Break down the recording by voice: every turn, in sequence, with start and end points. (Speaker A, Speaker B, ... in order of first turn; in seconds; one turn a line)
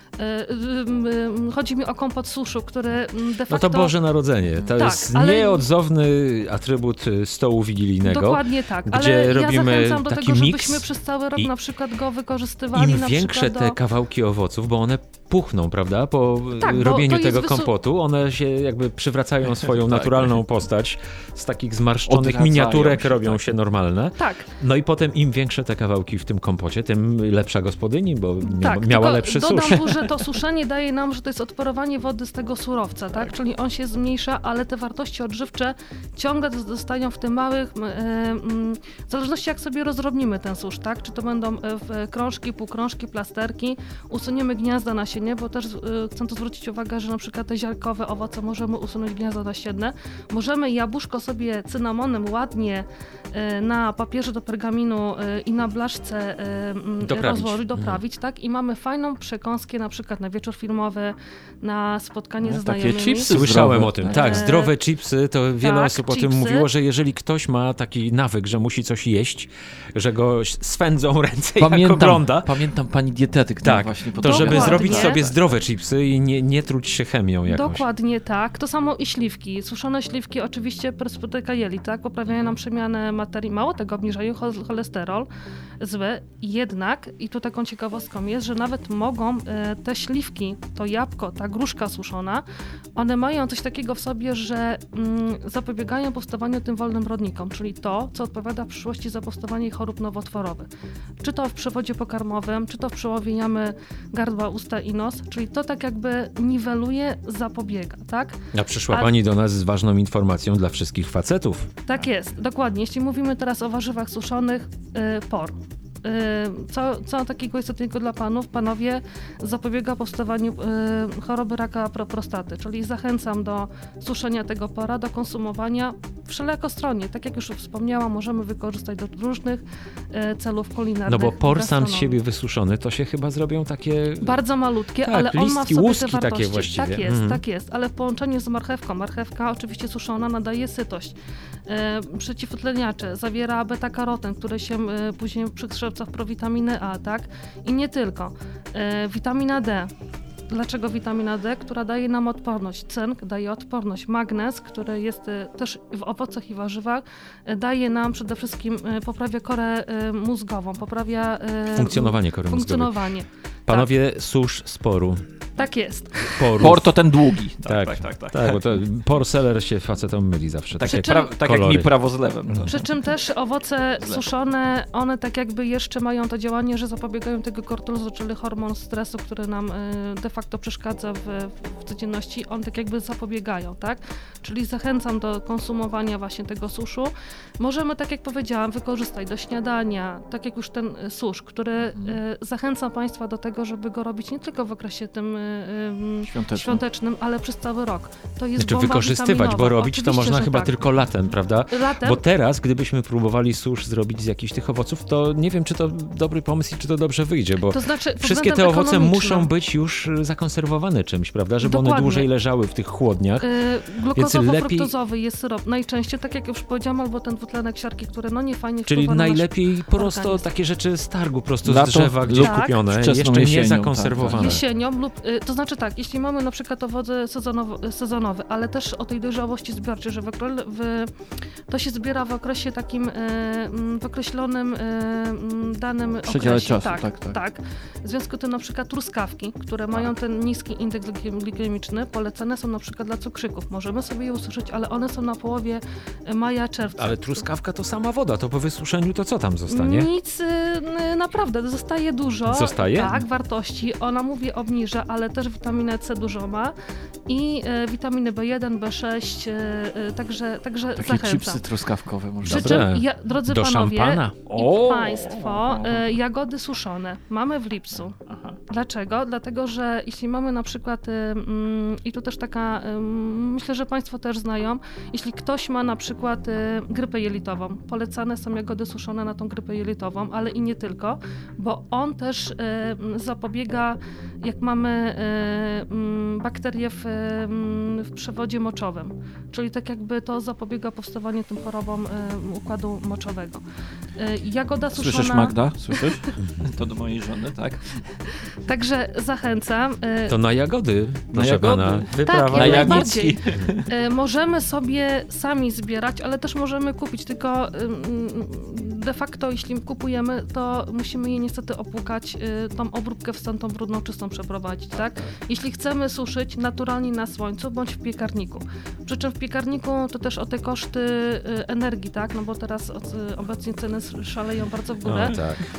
Speaker A: 0.2-4.0
Speaker B: 3.5-10.8
Speaker A: 4.7-5.7
Speaker A: 8.1-13.8
Speaker B: 12.7-30.0
Speaker A: 16.6-17.7
Speaker C: 20.0-20.3
Speaker C: 22.1-23.5
Speaker A: 24.2-24.5
Speaker A: 28.4-63.4
Speaker B: 57.0-58.0
Speaker C: 62.4-64.4
Speaker B: 63.3-72.6
Speaker A: 64.0-64.7
Speaker A: 65.6-66.7
Speaker C: 71.6-75.5
Speaker B: 73.6-77.8
Speaker A: 74.2-75.2
Speaker A: 77.5-85.3
Speaker A: 85.8-92.4
Speaker A: 93.0-100.7
Speaker A: 101.2-108.4
Speaker B: 108.5-111.7
Speaker A: 111.8-132.2
Speaker B: 131.1-134.4
Speaker A: 134.2-141.2
Speaker B: 135.0-137.4
Speaker A: 141.7-149.9
Speaker A: 150.5-163.9
Speaker B: 161.7-163.0
Speaker B: 163.7-165.2
Speaker A: 165.6-166.7
Speaker B: 166.2-167.0
Speaker C: 166.6-168.6
Speaker B: 167.7-171.9
Speaker C: 170.8-172.9
Speaker A: 170.9-171.3
Speaker A: 172.7-200.8
Speaker C: 191.9-192.2
Speaker C: 196.2-196.8
Speaker B: 198.6-213.5
Speaker A: 201.7-202.2
Speaker A: 207.7-209.5
Speaker A: 211.6-212.3
Speaker A: 213.4-220.5
Speaker B: 214.2-214.9
Speaker B: 218.9-224.6
Speaker C: 221.6-224.6
Speaker A: 222.3-222.8
Speaker A: 224.3-231.1
Speaker A: 231.7-247.5
Speaker C: 236.2-237.4
Speaker B: 247.0-250.1
Speaker A: 249.7-256.7
Speaker B: 252.5-253.2
Speaker A: 257.3-261.6
Speaker C: 261.0-262.9
Speaker A: 262.4-268.2
Speaker B: 262.5-264.4
Speaker C: 264.5-266.1
Speaker C: 268.2-268.6
Speaker A: 268.7-293.6
Speaker A: 294.2-296.4
Speaker C: 294.9-298.2
Speaker A: 298.3-300.4
Speaker B: 300.3-303.1
Speaker C: 301.3-303.9
Speaker A: 302.2-325.4
Speaker C: 314.9-315.3
Speaker B: 325.1-325.6